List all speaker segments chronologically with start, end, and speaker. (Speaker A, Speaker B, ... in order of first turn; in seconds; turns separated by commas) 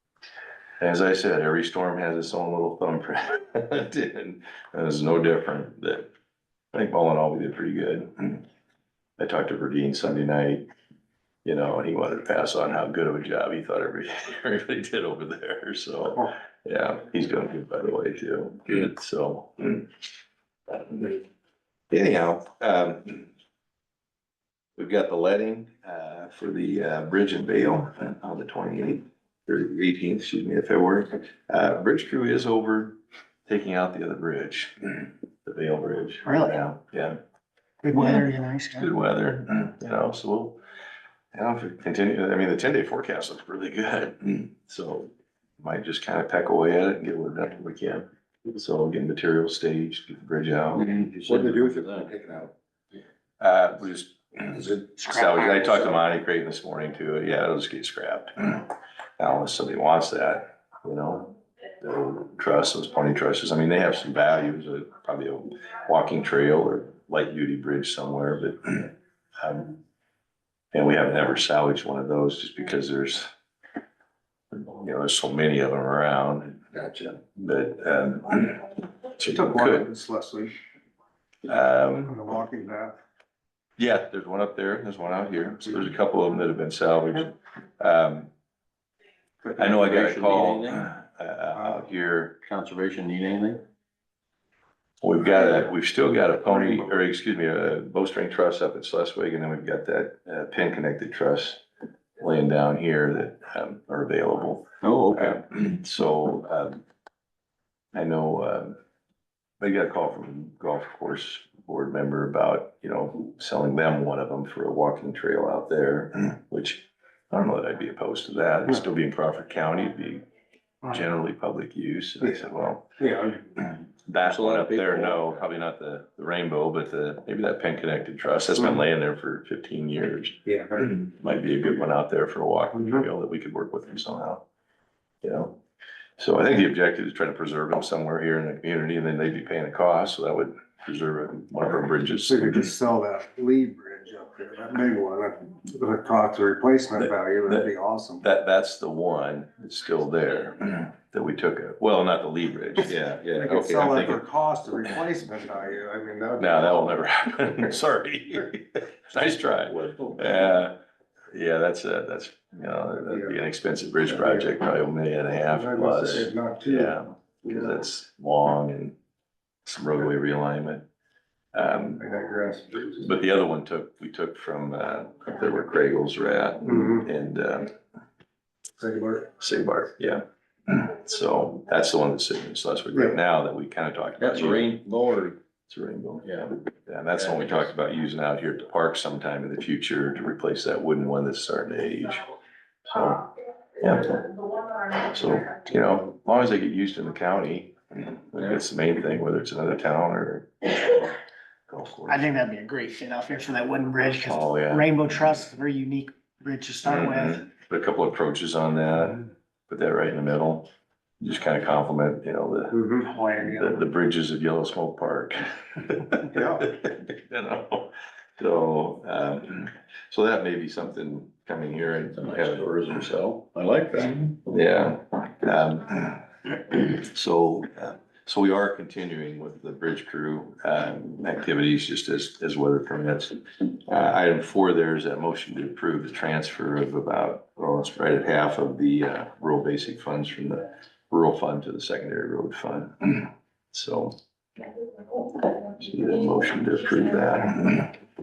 Speaker A: 0.8-6.1, Speaker A: 6.7-8.4, Speaker A: 9.2-10.7, Speaker A: 11.4-19.9, Speaker A: 20.7-21.3, Speaker A: 21.9-23.3, Speaker A: 24.8-37.2, Speaker B: 36.2-36.6, Speaker B: 37.8-38.9, Speaker A: 38.0-38.2, Speaker A: 38.8-40.6, Speaker A: 41.3-50.9, Speaker C: 50.7-52.1, Speaker D: 51.5-52.3, Speaker A: 53.4-69.8, Speaker B: 55.0-55.8, Speaker A: 70.7-73.3, Speaker A: 74.5-79.9, Speaker D: 79.3-80.5, Speaker A: 81.5-82.2, Speaker D: 82.1-83.0, Speaker A: 83.8-88.3, Speaker C: 89.6-90.9, Speaker A: 89.6-92.4, Speaker C: 92.4-93.6, Speaker A: 95.0-101.6, Speaker A: 102.2-106.8, Speaker C: 104.8-105.4, Speaker A: 107.9-108.8, Speaker A: 109.6-120.2, Speaker A: 120.8-122.9, Speaker D: 123.0-123.5, Speaker A: 123.6-134.4, Speaker C: 124.2-125.4, Speaker D: 130.5-130.9, Speaker A: 135.2-135.6, Speaker A: 136.2-142.8, Speaker D: 142.2-148.2, Speaker A: 147.0-147.7, Speaker A: 148.2-154.2, Speaker D: 153.4-156.9, Speaker A: 156.4-160.7, Speaker A: 161.3-169.0, Speaker D: 163.1-163.3, Speaker D: 164.1-164.5, Speaker D: 165.3-166.9, Speaker A: 169.7-170.9, Speaker A: 171.5-172.0, Speaker D: 172.0-173.0, Speaker A: 172.9-177.8, Speaker D: 176.7-177.1, Speaker D: 178.8-179.2, Speaker A: 179.4-184.8, Speaker C: 184.2-185.4, Speaker A: 185.7-192.3, Speaker C: 186.2-186.5, Speaker C: 187.2-187.6, Speaker A: 192.9-201.2, Speaker A: 201.7-202.3, Speaker B: 202.1-207.4, Speaker A: 204.2-205.0, Speaker A: 206.8-210.7, Speaker A: 211.2-212.8, Speaker D: 212.7-213.1, Speaker B: 213.1-213.8, Speaker A: 213.4-223.3, Speaker D: 216.3-216.6, Speaker C: 222.1-224.4, Speaker A: 224.5-244.2, Speaker A: 245.1-247.9